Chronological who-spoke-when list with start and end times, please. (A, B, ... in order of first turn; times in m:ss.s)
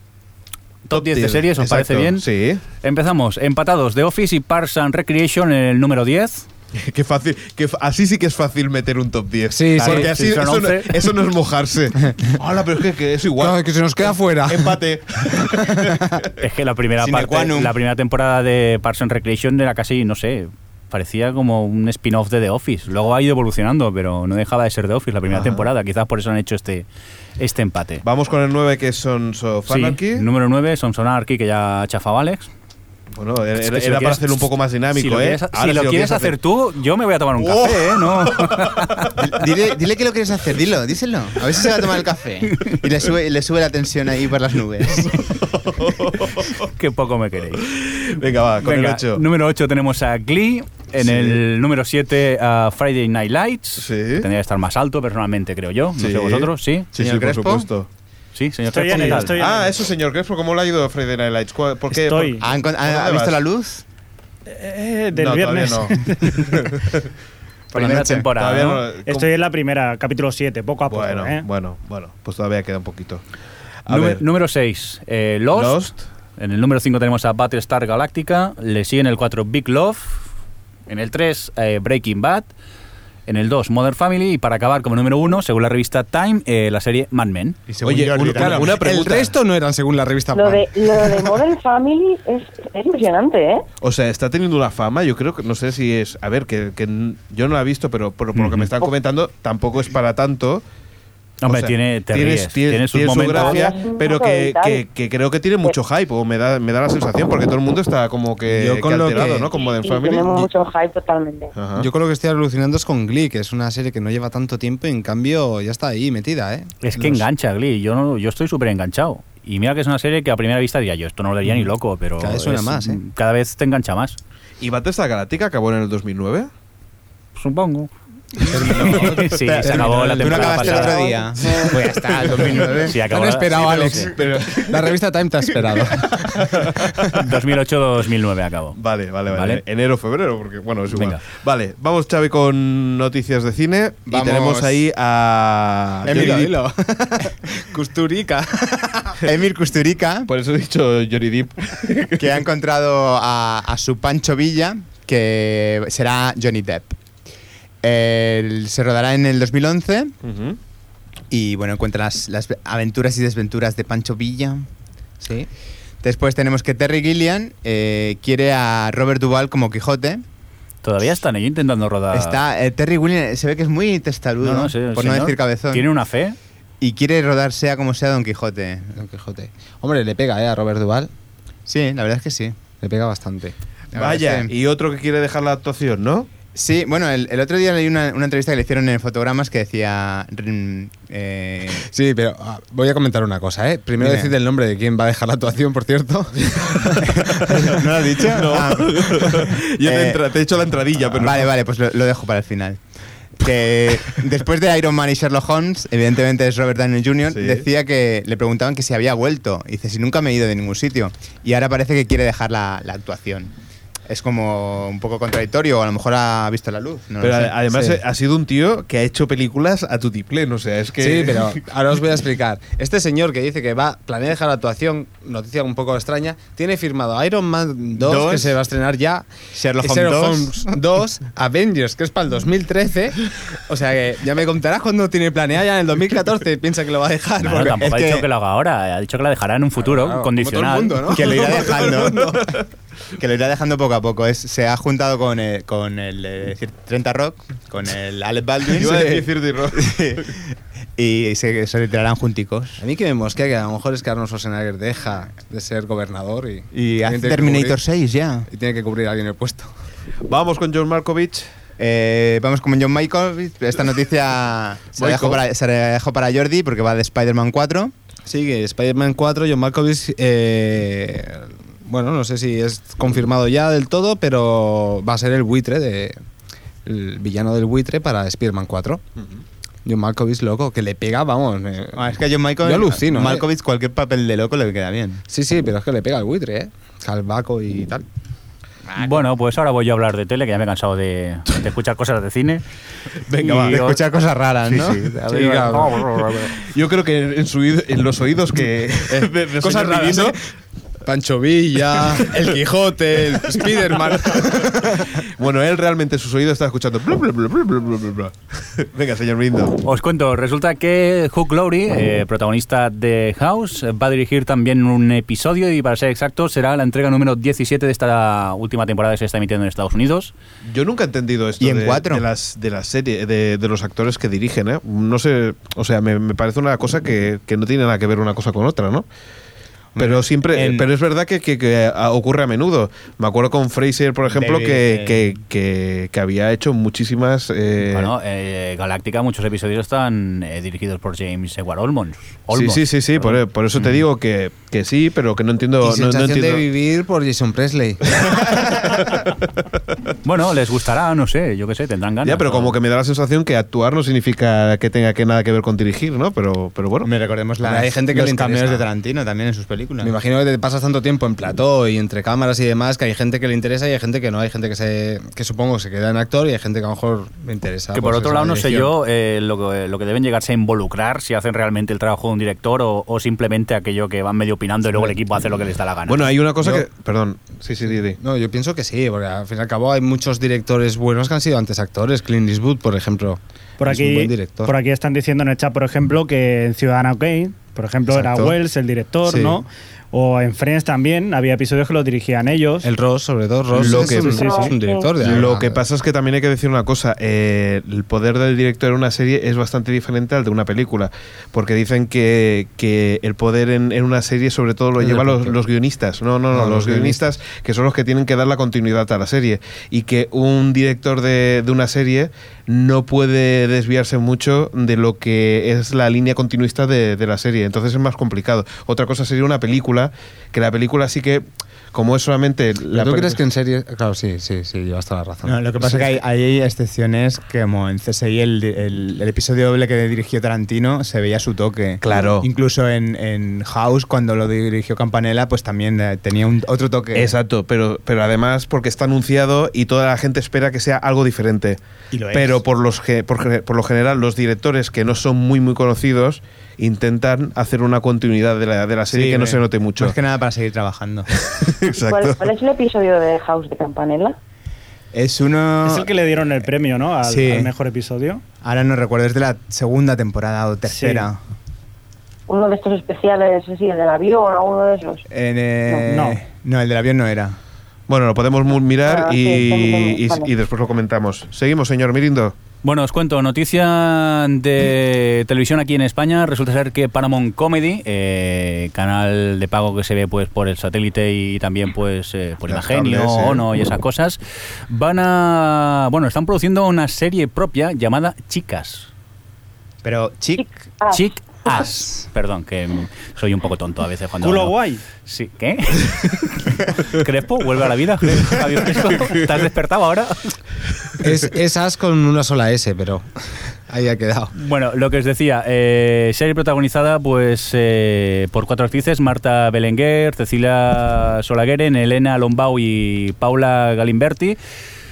0:00.9-0:02.3 A
0:00.9-0:02.6 B
0:02.8-0:06.4 A
0:06.8-0:16.3 B
0:09.5-0:10.1 C
0:09.8-0:11.1 A
0:13.4-0:14.8 C
0:16.4-0:26.9 A
0:17.0-0:17.8 D
0:25.3-0:25.7 B
0:27.4-0:28.0 A
0:28.0-0:30.3 B
0:29.7-0:32.5 A
0:33.2-0:36.4 B
0:33.6-0:39.2 A
0:37.4-0:39.1 B
0:39.2-0:45.2 D
0:45.0-0:46.7 B
0:46.6-0:47.7 A
0:47.6-0:49.2 B
0:48.6-0:56.9 A
0:51.0-0:51.4 B
0:53.8-0:54.3 B
0:56.0-0:57.9 B
0:57.0-0:57.6 C
0:58.4-0:59.4 A
0:58.7-0:59.8 E
0:58.9-1:03.4 B
1:01.9-1:02.4 E
1:02.4-1:03.8 D
1:04.5-1:06.5 E
1:05.1-1:07.1 B
1:07.7-1:08.3 D
1:07.7-1:08.9 A
1:07.9-1:09.3 B
1:09.1-1:11.5 E
1:10.9-1:13.2 B
1:13.9-1:14.2 B
1:13.9-1:20.2 A
1:15.5-1:16.0 B
1:20.9-1:22.5 A
1:23.3-1:27.6 A
1:27.7-1:29.1 D
1:27.8-1:29.3 B
1:28.2-1:31.3 C
1:30.3-1:33.7 F
1:33.8-1:40.6 B
1:38.4-1:38.7 A
1:41.4-1:43.7 A
1:41.4-1:50.5 B
1:43.3-1:44.8 F
1:48.5-1:49.5 C
1:49.6-1:51.5 F
1:51.6-1:51.9 B
1:51.8-1:56.7 C
1:56.8-2:04.2 A
2:02.2-2:03.0 C
2:04.6-2:06.5 B
2:07.4-2:11.0 A
2:08.4-2:11.0 C
2:09.4-2:13.0 D
2:12.8-2:14.1 A
2:13.0-2:16.5 C
2:13.6-2:15.0 B
2:16.0-2:17.3 B
2:17.2-2:18.8 A
2:18.8-2:26.5 B
2:19.3-2:19.6 A
2:20.9-2:21.2 A
2:24.1-2:24.8 D
2:26.0-2:26.6 D
2:26.0-2:28.9 C
2:29.0-2:30.3 D
2:30.3-2:32.3 B
2:32.2-2:37.0 D
2:37.8-2:40.2 D
2:40.2-2:40.6 B
2:41.3-2:44.7 D
2:45.2-2:45.5 C
2:46.0-2:50.2 D
2:50.8-2:52.4 A
2:52.1-2:55.9 D
2:54.4-2:56.4 A
2:56.8-2:59.0 D
2:59.0-3:01.1 C
3:01.7-3:02.6 D
3:02.8-3:03.5 C
3:03.9-3:04.5 D
3:03.9-3:06.3 B
3:06.5-3:11.8 D
3:11.8-3:16.9 C
3:14.0-3:14.3 D
3:16.5-3:21.5 B
3:17.1-3:20.2 D
3:21.1-3:22.8 D
3:23.4-3:33.5 D
3:27.3-3:27.6 B
3:34.1-3:37.6 D
3:37.2-3:41.6 B
3:37.7-3:38.0 C
3:41.0-3:57.8 C
3:48.0-3:48.6 D
3:49.5-3:50.7 D
3:57.4-4:01.2 A
3:57.4-3:58.3 D
3:59.8-4:02.4 C
4:01.1-4:02.4 D
4:03.2-4:10.4 D
4:08.7-4:10.2 B
4:11.0-4:12.8 D
4:12.8-4:17.8 C
4:16.7-4:18.5 D
4:18.5-4:19.7 C
4:20.3-4:21.5 B
4:21.8-4:27.9 D
4:25.0-4:25.4 B
4:28.3-4:36.2 C
4:36.8-4:39.0 C
4:39.8-4:42.0 C
4:41.9-4:45.2 D
4:42.6-4:43.4 C
4:45.3-4:48.0 C
4:49.0-4:49.2 D
4:49.0-4:52.6 A
4:53.3-4:53.8 B
4:53.4-4:54.0 A
4:53.4-4:56.1 D
4:55.2-4:56.2 C
4:55.9-5:00.4 B
4:59.2-5:00.4 C
5:01.1-5:05.2 C
5:01.9-5:02.5 B
5:03.3-5:09.8 B
5:09.8-5:20.3 A
5:20.7-5:29.1 B
5:21.6-5:22.2 D
5:29.9-5:30.9 D
5:30.0-5:38.1 B
5:34.3-5:35.4 D
5:37.8-5:44.0 A
5:42.5-5:46.6 B
5:45.8-5:48.0 C
5:48.2-5:49.5 B
5:50.2-5:52.8 A
5:52.2-5:57.1 B
5:57.0-6:00.1 D
5:57.6-5:58.8 C
6:00.0-6:08.9 C
6:07.9-6:16.3 A
6:16.1-6:18.2 B
6:16.6-6:16.9 C
6:18.2-6:24.7 C
6:23.8-6:32.9 E
6:28.1-6:28.6 C
6:29.2-6:29.6 C
6:32.8-6:35.8 C
6:33.7-6:34.4 B
6:33.8-6:34.8 E
6:34.2-6:35.1 F
6:35.2-7:03.4 B
6:45.0-6:45.6 C
6:46.5-6:47.2 C
7:02.9-7:06.1 C
7:05.4-7:17.4 D
7:12.0-7:12.5 B
7:17.2-7:21.8 B
7:22.1-7:22.6 D
7:22.3-7:30.2 B
7:29.1-7:31.3 D
7:31.5-7:32.4 B
7:32.0-7:34.4 F
7:35.1-7:36.1 D
7:35.8-7:38.4 E
7:37.2-7:37.7 D
7:38.6-7:41.4 D
7:40.9-7:41.3 E
7:42.5-7:45.2 F
7:45.3-7:47.6 D
7:46.1-7:46.4 E
7:48.1-7:52.6 B
7:49.1-7:50.5 F
7:52.8-8:09.1 A
8:02.7-8:03.6 B
8:10.0-8:10.7 D
8:10.6-8:11.2 F
8:11.1-8:20.5 A
8:14.4-8:15.0 E
8:21.2-8:24.5 C
8:24.6-8:34.6 A